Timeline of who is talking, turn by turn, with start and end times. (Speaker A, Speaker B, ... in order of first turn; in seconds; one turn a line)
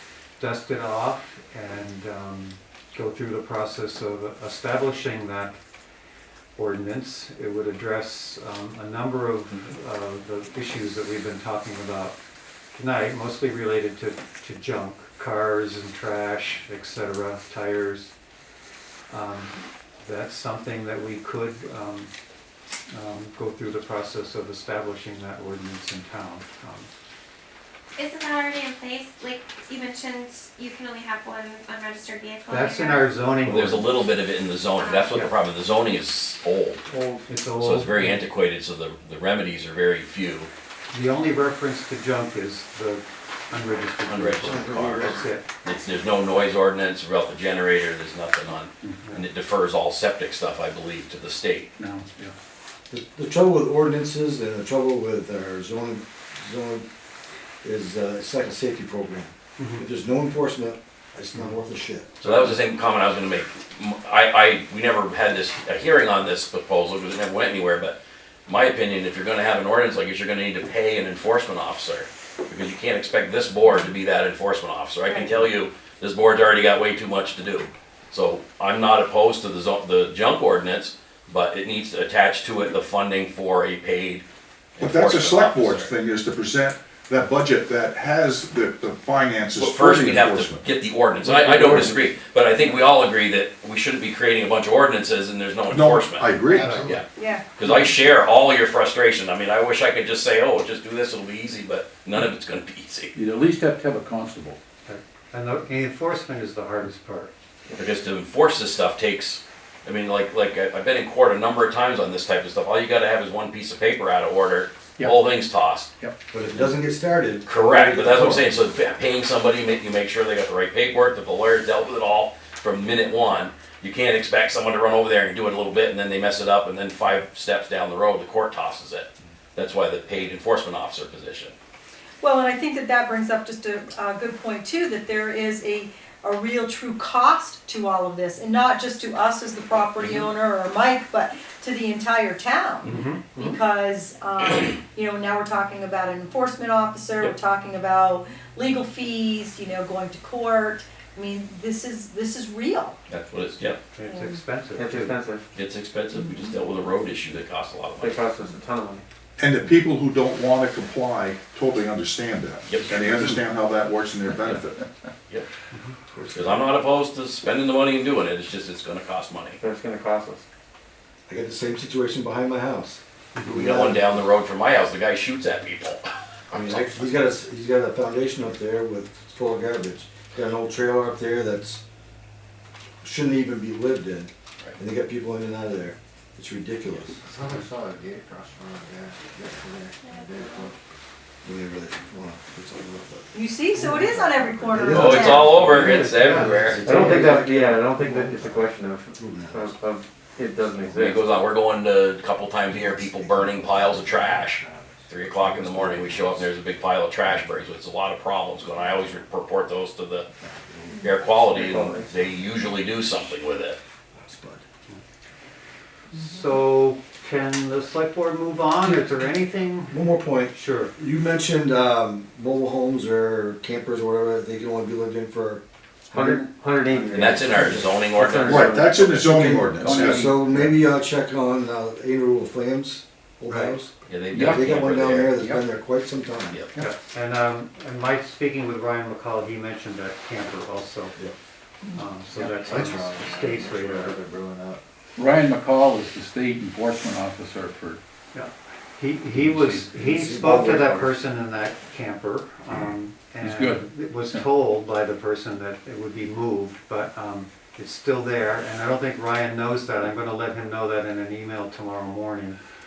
Speaker A: 0.4-5.6
Speaker A: 6.6-12.1
Speaker A: 12.7-18.1
Speaker A: 19.1-22.1
Speaker A: 22.9-26.9
Speaker B: 28.0-33.1
Speaker A: 32.5-33.9
Speaker C: 33.4-36.9
Speaker B: 34.8-35.1
Speaker D: 36.9-37.4
Speaker A: 37.3-38.2
Speaker C: 37.6-40.5
Speaker A: 40.9-45.4
Speaker C: 44.1-51.7
Speaker D: 44.6-44.9
Speaker E: 51.8-52.3
Speaker F: 52.9-56.8
Speaker F: 57.6-62.1
Speaker A: 59.6-59.8
Speaker C: 62.2-68.0
Speaker C: 68.5-84.2
Speaker G: 75.1-75.3
Speaker C: 84.8-85.9
Speaker H: 84.8-90.7
Speaker C: 89.6-103.1
Speaker E: 91.2-92.0
Speaker H: 95.7-97.0
Speaker A: 96.5-96.9
Speaker G: 97.2-97.4
Speaker E: 103.1-104.6
Speaker A: 104.8-107.3
Speaker C: 107.8-115.9
Speaker F: 116.3-118.6
Speaker C: 117.5-131.5
Speaker G: 132.2-153.0
Speaker C: 139.9-140.3
Speaker A: 142.9-143.2
Speaker C: 142.9-143.5
Speaker C: 153.1-153.8
Speaker A: 153.9-155.2
Speaker G: 154.1-154.4
Speaker D: 154.8-155.4
Speaker C: 155.5-158.2
Speaker D: 158.0-159.0
Speaker H: 159.4-164.9
Speaker C: 162.7-163.0
Speaker F: 166.1-166.6
Speaker C: 166.3-169.6
Speaker D: 169.6-170.4
Speaker F: 171.3-174.1
Speaker C: 173.5-177.1
Speaker F: 176.5-181.8
Speaker F: 183.0-187.2
Speaker I: 187.1-190.8
Speaker B: 190.0-190.5
Speaker F: 191.4-199.8
Speaker G: 193.3-195.6
Speaker I: 194.0-194.9
Speaker C: 194.9-197.0
Speaker A: 195.6-196.8
Speaker D: 196.8-201.2
Speaker I: 200.6-201.4
Speaker C: 200.9-210.3
Speaker I: 202.7-206.4
Speaker C: 211.0-213.8
Speaker D: 211.5-212.1
Speaker F: 214.2-214.6
Speaker A: 216.1-220.9
Speaker F: 219.9-227.9
Speaker D: 226.1-229.4
Speaker C: 227.1-229.1
Speaker H: 228.4-230.1
Speaker F: 229.2-236.6
Speaker E: 229.7-230.8
Speaker A: 233.5-233.8
Speaker C: 234.1-235.4
Speaker E: 234.3-234.7
Speaker E: 235.3-235.6
Speaker A: 236.8-241.2
Speaker A: 241.9-244.2
Speaker I: 242.3-244.8
Speaker E: 245.2-248.0
Speaker A: 248.3-262.6
Speaker E: 249.3-249.9
Speaker D: 250.5-251.1
Speaker E: 253.4-254.5